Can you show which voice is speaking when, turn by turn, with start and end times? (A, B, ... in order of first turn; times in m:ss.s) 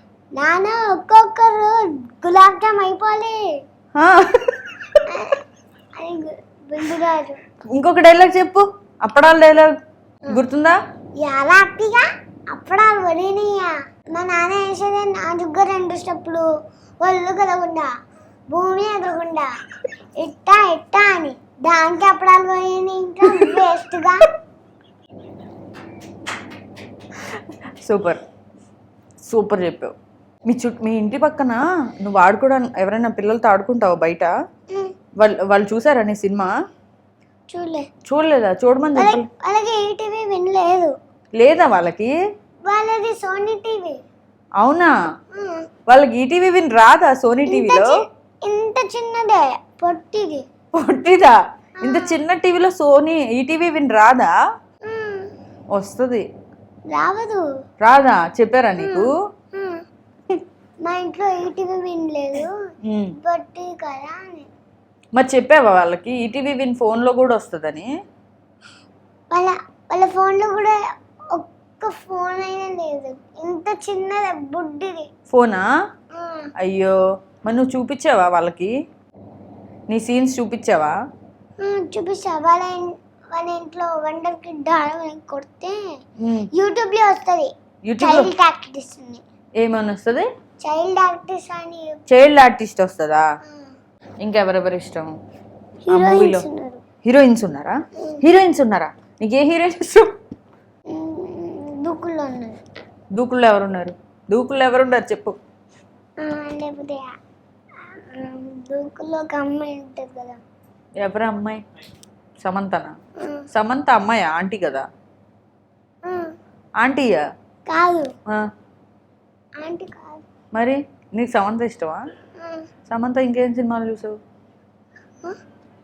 0:00.4-0:03.5 A
0:04.0-0:05.0 B
0:05.1-0:05.4 A
0:06.0-0:07.4 A
0:07.7-0:09.7 B
0:10.3-0:10.8 B
0:11.2-0:16.5 A
0:17.0-0:17.9 A
0:18.5-0:19.5 A
0:20.2-0:24.3 A
0:23.3-0:23.6 B
0:27.3-0:28.2 B
0:29.3-0:29.9 B
0:30.5-0:34.3 B
0:35.2-0:36.5 B
0:37.5-0:37.9 A
0:38.1-0:39.3 B
0:39.0-0:40.9 A
0:41.4-0:42.1 B
0:42.7-0:44.0 A
0:44.6-0:44.9 B
0:45.3-0:45.7 A
0:45.9-0:48.0 B
0:47.5-0:50.5 A
0:50.8-0:54.3 B
0:51.8-0:52.2 A
0:54.9-0:55.3 A
0:55.7-0:56.2 B
0:56.9-0:57.4 A
0:57.8-0:59.1 B
0:58.8-0:59.8 A
1:00.8-1:02.7 A
1:02.8-1:03.2 B
1:03.2-1:04.5 A
1:05.2-1:07.9 B
1:09.3-1:10.8 A
1:11.3-1:15.1 A
1:15.3-1:15.6 B
1:16.1-1:16.5 A
1:16.6-1:18.7 B
1:19.9-1:21.0 B
1:21.6-1:25.8 A
1:26.2-1:26.5 B
1:26.5-1:29.2 A
1:27.9-1:28.3 B
1:29.6-1:30.3 B
1:30.6-1:32.0 A
1:32.1-1:33.2 B
1:33.4-1:33.7 A
1:34.2-1:35.1 B
1:35.9-1:36.8 A
1:35.9-1:36.5 B
1:37.0-1:40.1 B
1:38.0-1:38.2 A
1:40.9-1:42.6 A
1:43.2-1:45.4 B
1:46.2-1:47.1 A
1:47.8-1:50.4 A
1:51.0-1:51.6 B
1:52.4-1:53.0 B
1:53.2-1:53.5 A
1:53.5-1:54.8 B
1:56.0-1:56.4 A
1:56.8-1:57.2 B
1:57.7-1:58.1 A
1:59.6-2:00.2 A
2:00.5-2:02.1 B
2:02.4-2:02.7 A
2:02.9-2:04.2 B